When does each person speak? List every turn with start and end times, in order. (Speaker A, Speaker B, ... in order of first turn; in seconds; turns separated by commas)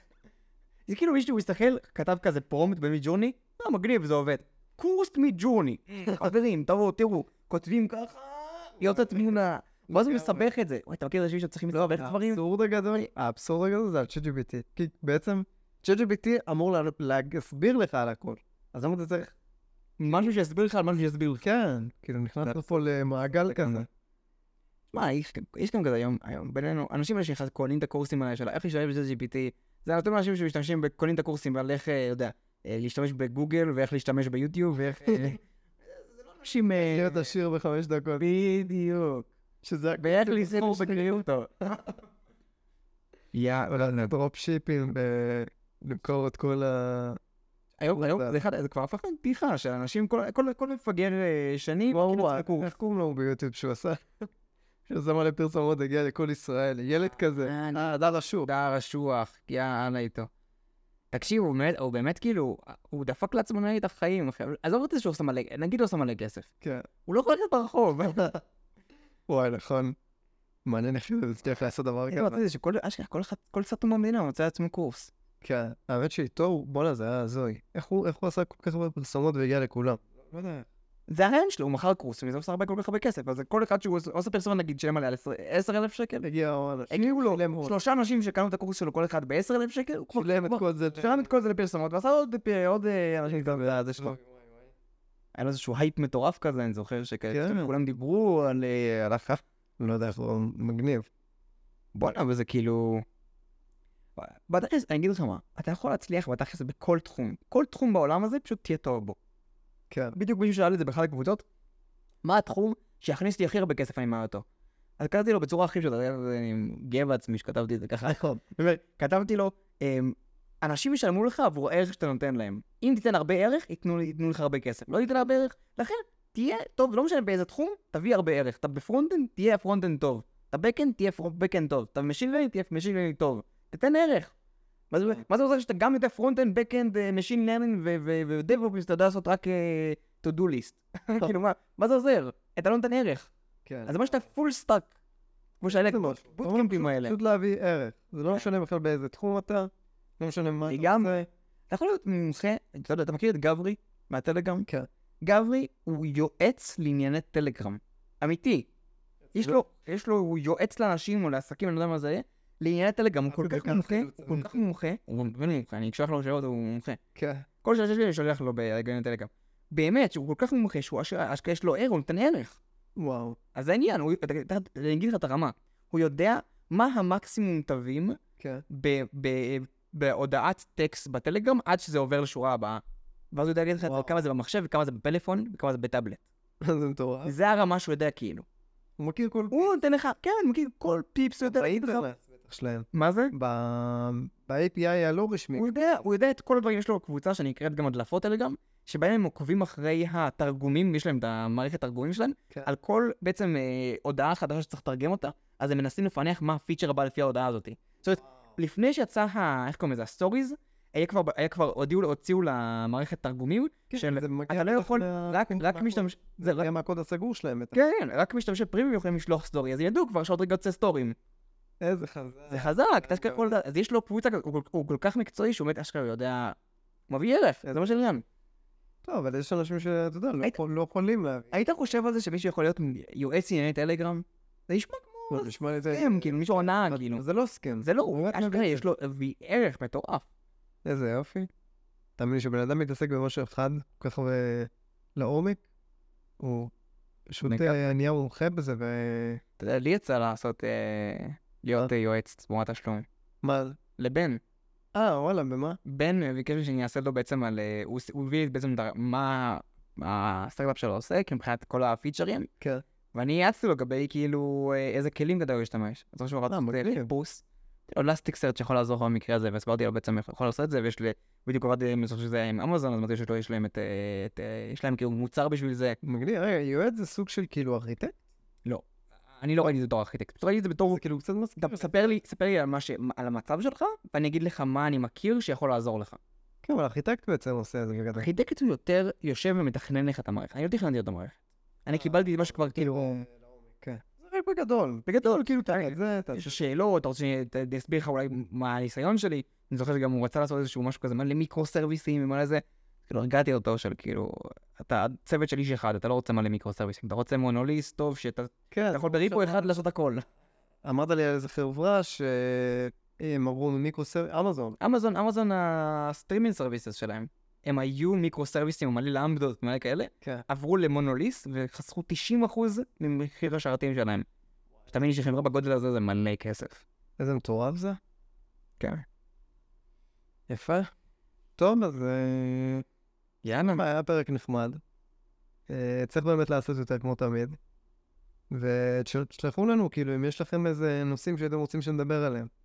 Speaker A: 0.9-12.4, Speaker B: 8.8-9.3, Speaker B: 9.9-10.4, Speaker B: 11.7-19.3, Speaker A: 20.0-21.4, Speaker B: 21.4-23.9, Speaker A: 24.9-35.4, Speaker B: 35.0-35.4, Speaker A: 35.9-37.3, Speaker B: 36.8-38.2, Speaker A: 38.2-39.3, Speaker B: 39.6-41.1, Speaker A: 40.0-41.8, Speaker A: 43.3-44.1, Speaker B: 43.7-47.2, Speaker A: 47.8-52.7, Speaker B: 47.9-48.4, Speaker B: 51.9-54.3, Speaker B: 54.9-58.5, Speaker A: 57.4-57.9, Speaker A: 58.4-60.3, Speaker A: 61.1-66.5, Speaker B: 66.6-66.9, Speaker A: 67.1-68.3, Speaker B: 68.1-68.4, Speaker B: 69.3-70.0, Speaker B: 70.6-72.4, Speaker A: 72.1-75.1, Speaker B: 75.4-80.7, Speaker A: 81.1-86.2, Speaker B: 86.2-87.7, Speaker A: 86.9-94.2, Speaker B: 90.1-91.3, Speaker B: 93.3-94.7, Speaker A: 95.3-99.4, Speaker B: 97.3-97.7, Speaker B: 99.8-101.1, Speaker A: 101.9-103.0, Speaker A: 104.2-109.2, Speaker B: 109.9-110.2, Speaker A: 110.1-111.4, Speaker A: 112.2-114.4, Speaker A: 115.0-134.3, Speaker B: 118.1-118.4, Speaker B: 124.9-125.4, Speaker A: 134.9-143.3, Speaker B: 143.6-144.2, Speaker A: 143.9-144.9, Speaker A: 145.6-147.1, Speaker B: 145.6-151.3, Speaker A: 150.7-151.1, Speaker A: 151.7-154.7, Speaker A: 155.2-158.7, Speaker B: 159.3-159.6, Speaker A: 159.3-167.0, Speaker B: 163.3-164.6, Speaker B: 167.1-167.4, Speaker A: 167.6-172.6, Speaker B: 172.9-173.4, Speaker A: 173.6-186.2, Speaker B: 178.4-178.6, Speaker B: 183.9-184.1, Speaker B: 186.6-187.3, Speaker A: 187.2-188.4, Speaker B: 189.0-189.7, Speaker A: 189.5-192.0, Speaker B: 191.4-196.0, Speaker A: 192.9-193.3, Speaker A: 195.6-216.7, Speaker B: 213.9-217.7, Speaker A: 217.7-221.2, Speaker B: 221.8-223.5, Speaker A: 222.5-226.6, Speaker A: 227.1-228.2, Speaker B: 227.6-228.0, Speaker B: 229.0-231.6, Speaker A: 231.5-237.2, Speaker B: 235.3-238.8, Speaker A: 237.8-240.2, Speaker B: 240.8-241.5, Speaker B: 242.2-245.6, Speaker B: 246.4-246.7, Speaker B: 247.3-249.4, Speaker A: 247.4-247.7, Speaker A: 249.6-253.1, Speaker B: 253.4-253.8, Speaker A: 254.0-254.4, Speaker B: 254.9-255.8, Speaker A: 255.8-262.5, Speaker A: 263.1-276.0, Speaker B: 266.5-267.1, Speaker B: 276.0-278.1, Speaker A: 279.4-281.0, Speaker B: 280.9-282.1, Speaker A: 281.6-286.2, Speaker B: 286.6-288.3, Speaker A: 288.1-293.2, Speaker B: 291.9-296.6, Speaker A: 295.1-310.2, Speaker B: 308.7-309.8, Speaker B: 310.8-314.8, Speaker A: 314.8-324.3, Speaker A: 324.9-326.8, Speaker B: 327.2-328.0, Speaker A: 328.8-329.1, Speaker B: 330.5-330.9, Speaker B: 331.6-332.8, Speaker A: 333.4-333.8, Speaker B: 333.6-334.8, Speaker B: 335.7-337.6, Speaker B: 338.5-342.5